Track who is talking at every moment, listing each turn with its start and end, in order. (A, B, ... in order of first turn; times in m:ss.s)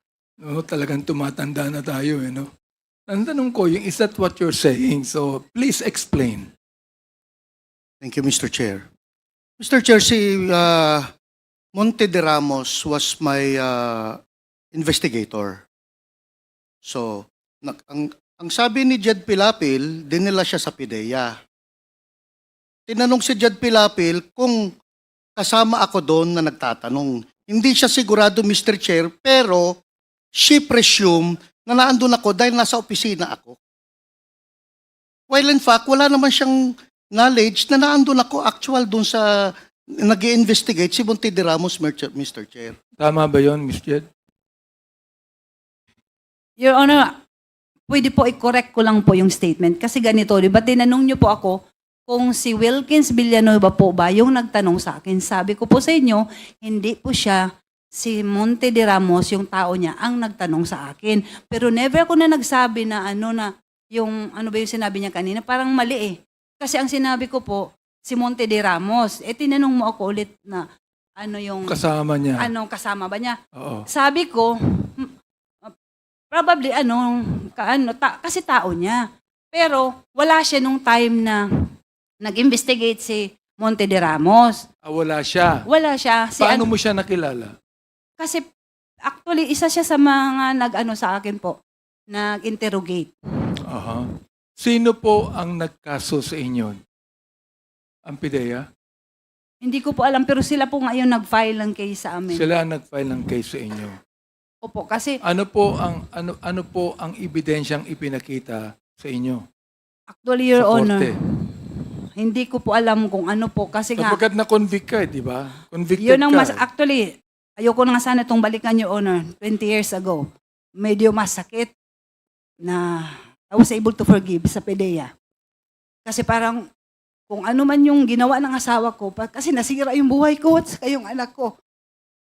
0:00.4-0:02.5 A
0:03.1-0:06.5 A
0:08.0-0:08.8 B
0:09.6-0:11.1 B
0:11.8-0:14.2 B
0:14.7-0:15.6 B
0:16.8-0:21.3 B
0:22.9-0:24.7 B
0:25.4-0:29.7 B
0:30.4-0:33.6 B
0:35.3-0:42.8 B
0:43.0-0:44.0 A
0:46.6-0:47.2 C
0:47.9-1:10.7 C
1:11.2-1:11.8 C
1:11.7-1:12.5 A
1:12.4-1:13.4 C
1:13.6-1:13.9 A
1:13.9-1:15.1 C
1:16.3-1:21.4 C
1:22.2-1:24.6 C
1:24.8-1:25.6 A
1:25.7-1:26.7 C
1:26.4-1:27.5 A
1:28.2-1:28.4 C
1:29.1-1:31.6 C
1:32.1-1:33.1 C
1:33.7-1:34.1 A
1:34.6-1:36.8 A
1:38.1-1:38.6 A
1:39.6-1:42.4 C
1:42.3-1:44.0 A
1:44.6-1:45.2 C
1:45.2-1:49.4 A
1:50.1-1:54.2 C
1:50.6-1:51.1 A
1:54.0-1:56.6 A
1:56.0-2:00.3 C
2:00.8-2:01.7 C
2:02.6-2:05.1 C
2:06.0-2:06.6 C
2:07.3-2:11.5 C